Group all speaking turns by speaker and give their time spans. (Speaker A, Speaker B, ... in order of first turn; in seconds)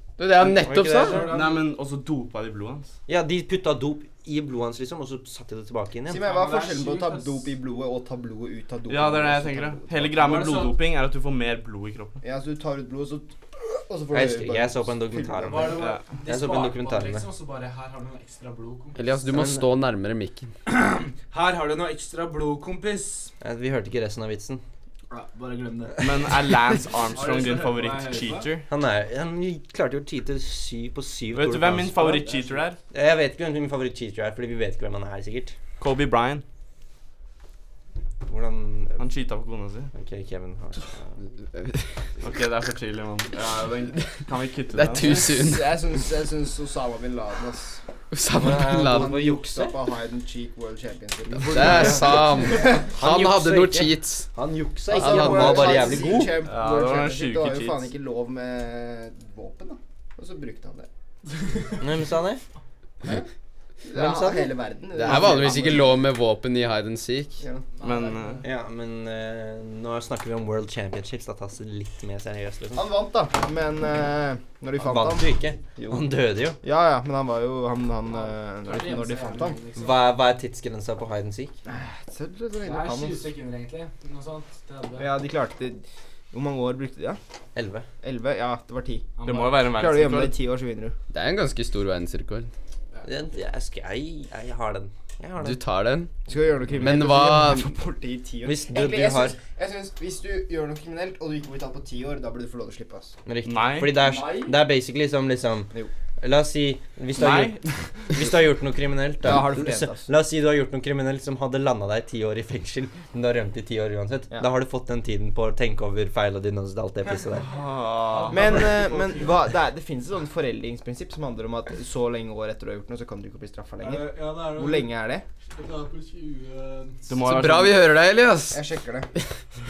Speaker A: 0.2-1.3, 18.9-20.5, 41.5-41.9, 44.7-45.8, 48.1-49.2, 51.5-54.3, 54.9-55.8, 64.9-67.4, 91.1-92.5, 95.4-96.1, 96.8-97.7, 127.2-128.6
Speaker B: 0.4-1.3, 3.1-6.2, 14.1-17.2, 19.2-19.7, 23.4-24.6, 28.7-32.2, 32.9-35.5, 38.2-39.0, 39.9-41.2, 48.3-49.8, 51.4-51.9, 53.0-56.5, 61.8-62.4, 63.9-64.5, 68.4-72.9, 74.8-76.6, 79.8-81.6, 87.5-87.8, 93.0-95.6, 98.4-99.3, 103.2-107.6, 108.1-117.5
Speaker C: 0.9-1.6, 6.1-7.4, 10.2-10.8, 15.4-19.0, 20.7-23.3, 25.1-26.3, 27.1-28.5, 32.0-32.6, 55.5-56.2, 67.8-68.4, 78.1-80.1, 82.6-85.1, 89.2-89.8, 104.0-104.5, 118.1-119.3, 123.8-124.9, 125.5-127.1
Speaker D: 1.3-2.9, 8.9-12.2, 26.0-28.7, 31.3-32.8, 35.8-36.4, 39.0-39.9, 42.2-45.2, 56.4-57.9, 65.3-65.8, 67.8-68.4, 89.2-90.4, 103.4-104.0, 107.1-107.7, 117.5-119.2, 127.1-127.8
Speaker E: 6.1-10.4, 12.2-15.8, 45.0-47.8, 48.7-52.9, 54.9-60.9, 63.8-65.9, 67.4-67.7, 72.8-76.0, 76.6-79.6, 81.7-83.3, 85.0-87.2, 88.0-89.1, 89.6-90.9, 96.3-103.1, 109.2-110.1, 118.3-125.2, 128.5-129.1